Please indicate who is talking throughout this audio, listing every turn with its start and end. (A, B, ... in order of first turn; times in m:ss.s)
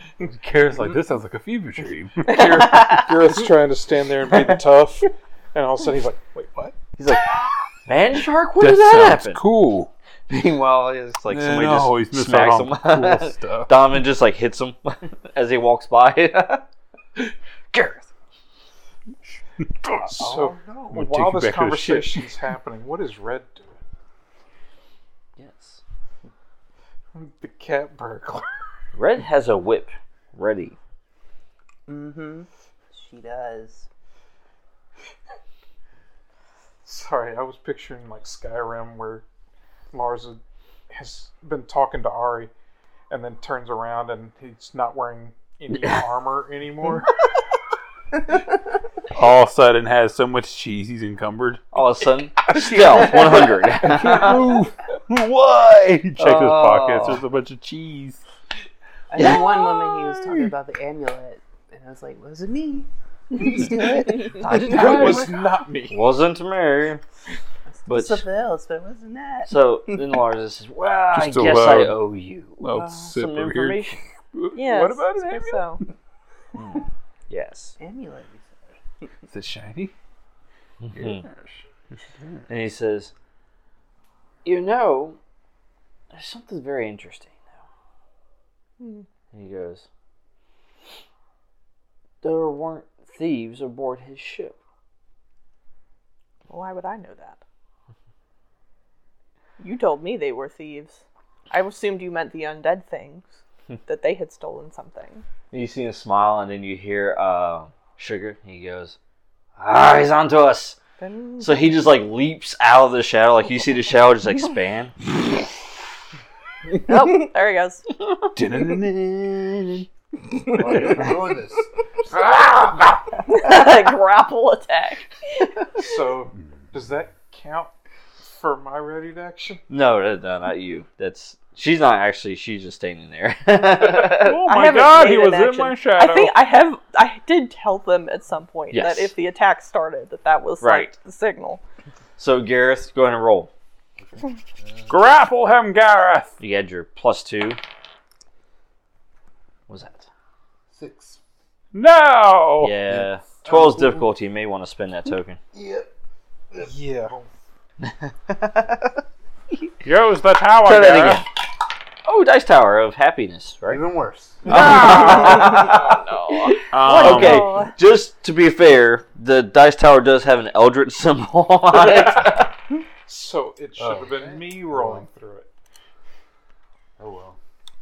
0:00.2-0:02.6 A
0:02.2-0:06.8 B
0:07.0-0:09.4 C
0:08.6-0:09.9 A
0:10.3-0:16.6 C
0:11.3-0:13.8 A
0:17.2-0:18.1 C
0:19.6-0:20.2 A
0:20.0-0:23.8 B
0:20.1-0:20.9 D
0:20.9-0:22.2 A
0:25.4-0:25.8 C
0:27.1-0:28.5 B
0:28.9-0:30.8 C
0:31.9-0:33.9 E
0:36.8-0:39.2 B
0:39.9-0:42.5 B
0:43.1-0:47.1 B
0:45.7-0:46.0 C
0:49.1-0:51.6 A
0:51.7-0:54.4 C
0:52.5-0:58.2 A
0:56.2-0:57.2 C
0:59.1-1:04.7 E
0:59.2-0:59.5 C
1:04.4-1:05.3 C
1:04.5-1:06.1 B
1:04.6-1:05.0 A
1:05.9-1:07.0 C
1:07.7-1:10.0 E
1:07.9-1:08.2 C
1:09.5-1:14.0 C
1:11.1-1:12.0 A
1:12.6-1:15.9 A
1:14.5-1:15.8 F
1:16.6-1:17.8 C
1:17.8-1:18.8 E
1:19.3-1:19.9 A
1:20.8-1:21.2 C
1:20.9-1:22.4 A
1:22.5-1:23.1 C
1:24.4-1:25.2 C
1:26.1-1:27.4 C
1:28.8-1:29.0 F
1:29.3-1:29.9 C
1:32.2-1:34.6 C
1:36.5-1:37.4 F
1:39.6-1:45.2 F
1:45.5-1:49.0 C
1:49.6-1:50.8 C
1:51.0-1:51.7 F
1:51.4-1:55.5 C
1:56.8-1:57.8 F
1:58.3-1:59.6 A
1:58.4-1:59.8 C
2:00.5-2:01.7 D
2:03.3-2:05.5 F
2:05.8-2:09.6 B
2:09.7-2:14.5 C
2:13.9-2:16.4 A
2:14.4-2:21.6 F
2:18.7-2:19.1 C
2:20.6-2:20.9 C
2:22.2-2:23.5 C
2:24.0-2:25.0 D
2:24.9-2:26.3 A
2:26.4-2:27.6 C
2:29.7-2:30.1 C
2:30.7-2:31.2 D
2:31.7-2:32.8 A
2:32.6-2:35.4 C
2:33.2-2:34.1 D
2:35.5-2:35.9 D
2:36.5-2:37.4 D
2:36.6-2:37.1 B
2:39.8-2:41.2 A
2:40.6-2:41.3 C
2:42.0-2:43.8 C
2:43.6-2:44.4 D
2:44.4-2:52.5 C
2:45.6-2:47.7 F
2:46.7-2:47.6 A
2:53.0-2:55.5 B
2:53.8-2:55.1 D
2:57.0-2:57.4 D